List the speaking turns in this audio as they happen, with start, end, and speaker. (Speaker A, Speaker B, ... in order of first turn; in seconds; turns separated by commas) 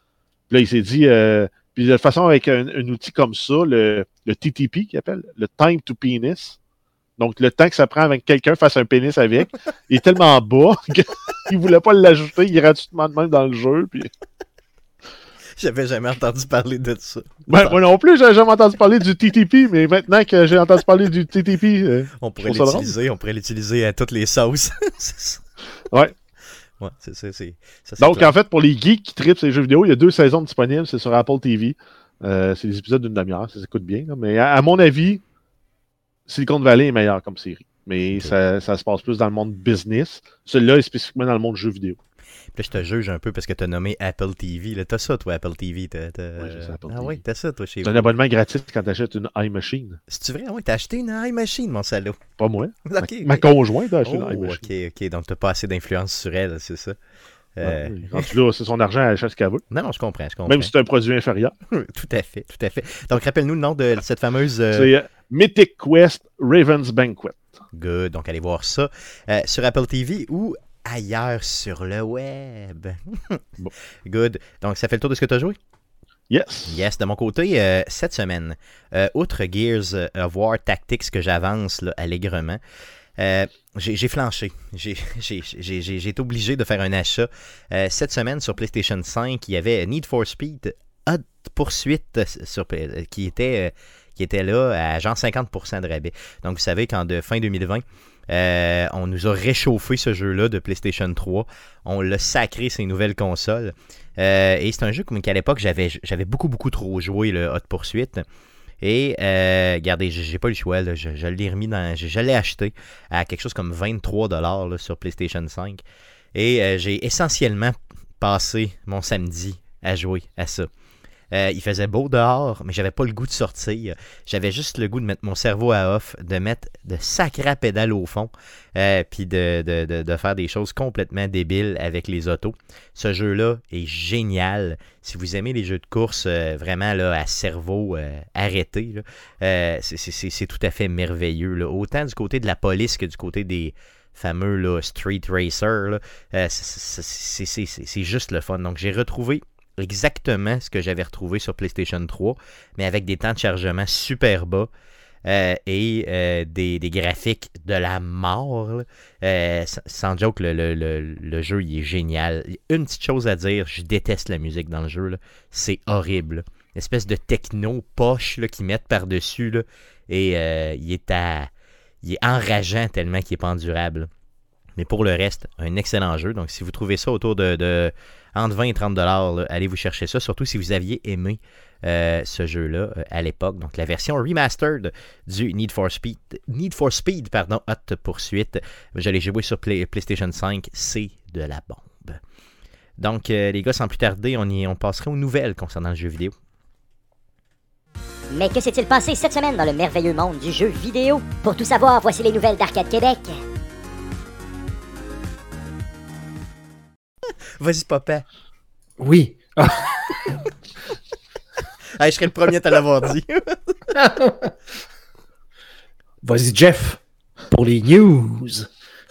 Speaker A: 0.5-6.6, Speaker A: 7.2-14.1, Speaker B: 15.6-17.8, Speaker A: 17.5-22.9, Speaker B: 22.2-25.4, Speaker B: 26.8-28.3, Speaker A: 28.0-35.2, Speaker A: 36.3-42.0, Speaker B: 42.5-48.1, Speaker A: 46.4-47.2, Speaker A: 47.8-50.0, Speaker B: 50.1-52.2, Speaker A: 52.4-54.6, Speaker B: 52.9-53.5, Speaker B: 54.0-57.0, Speaker B: 57.6-58.4, Speaker A: 57.6-59.6, Speaker B: 59.7-60.7, Speaker A: 60.5-61.5, Speaker B: 61.7-64.9, Speaker A: 64.7-67.5, Speaker B: 67.7-73.4, Speaker B: 74.0-75.6, Speaker A: 76.3-76.8, Speaker B: 76.7-82.6, Speaker B: 83.2-108.2, Speaker B: 108.8-115.8, Speaker B: 116.3-120.7, Speaker B: 121.3-154.7, Speaker B: 155.2-171.5, Speaker B: 172.0-174.1, Speaker B: 174.8-192.2, Speaker B: 193.0-196.3, Speaker C: 198.3-203.3, Speaker B: 207.6-208.2, Speaker D: 209.0-210.4, Speaker B: 212.0-213.9, Speaker D: 214.0-214.5, Speaker D: 216.2-218.7